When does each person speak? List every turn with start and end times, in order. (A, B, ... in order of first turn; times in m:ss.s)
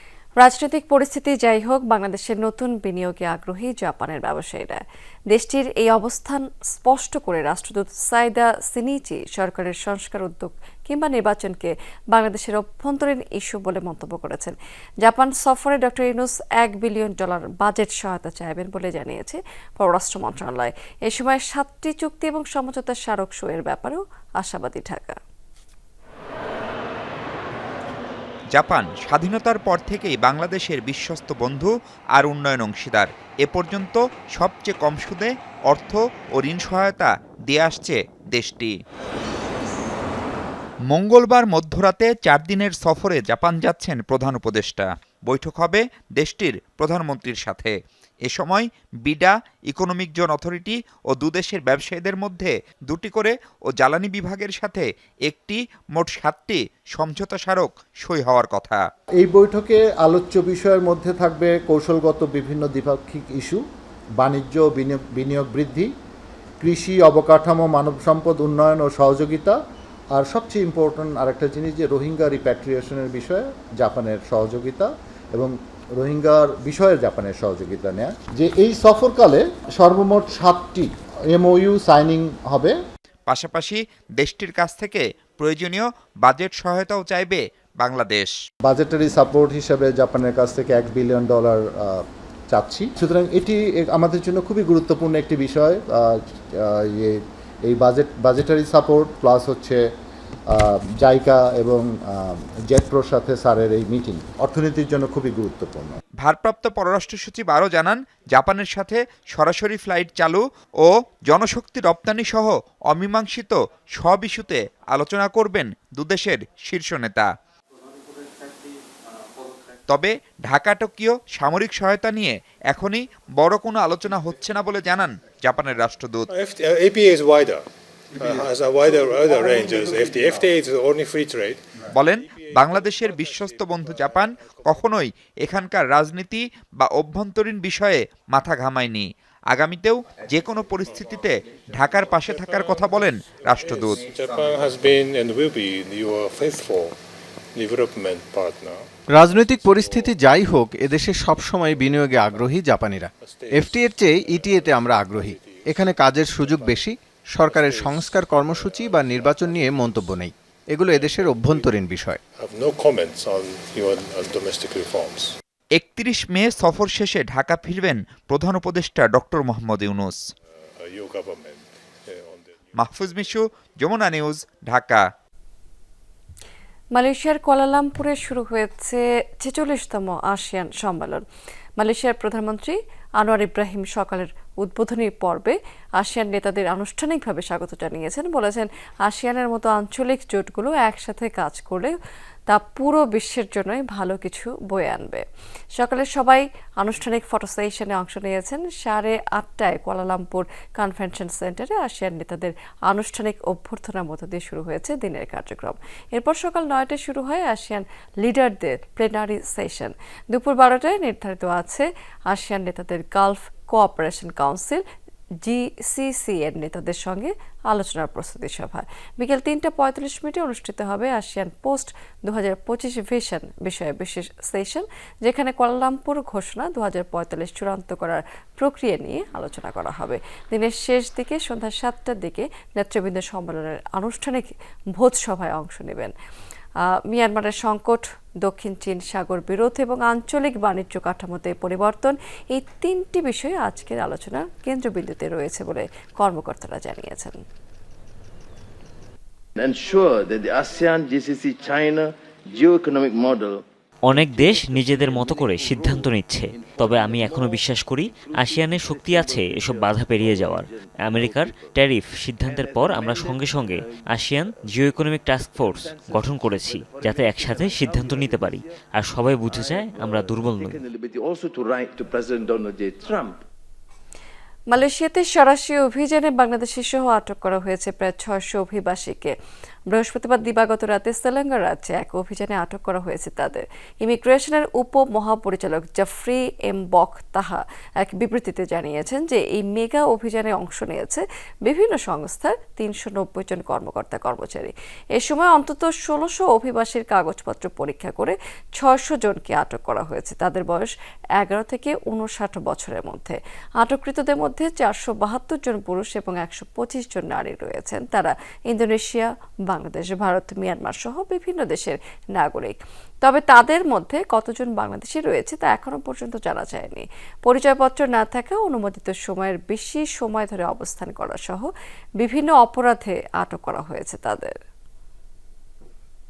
0:00.4-0:25.2 A
0:28.5-0:38.7 B
0:40.9-0:58.8 B
0:59.2-1:03.6 C
1:04.2-1:05.9 C
1:06.6-1:09.6 C
1:10.1-1:22.8 C
1:23.3-1:28.3 B
1:28.6-1:39.8 C
1:40.5-1:46.0 C
1:46.2-1:57.3 B
1:59.9-2:06.3 B
2:06.3-2:07.6 D
2:08.2-2:11.6 D
2:11.9-2:24.0 B
2:12.4-2:14.8 D
2:22.3-2:27.0 D
2:27.5-2:30.2 D
2:29.1-2:42.2 E
2:31.6-2:32.6 D
2:33.2-2:36.8 D
2:37.4-2:40.1 D
2:40.9-2:45.3 D
2:45.8-2:50.2 B
2:50.8-2:52.5 D
2:52.7-2:55.0 B
2:56.9-3:01.2 A
3:01.8-3:11.9 A
3:12.5-3:15.2 A
3:15.8-3:34.8 A
3:35.4-3:56.1 A
3:57.1-4:07.4 A
4:09.6-4:13.6 F
4:14.0-4:30.8 G
4:14.1-4:21.7 F
4:22.4-4:24.0 F
4:25.7-4:26.2 F
4:26.8-4:28.7 F
4:29.5-4:33.4 F
4:34.7-4:39.3 A
4:39.9-5:21.7 A
5:22.2-5:24.5 A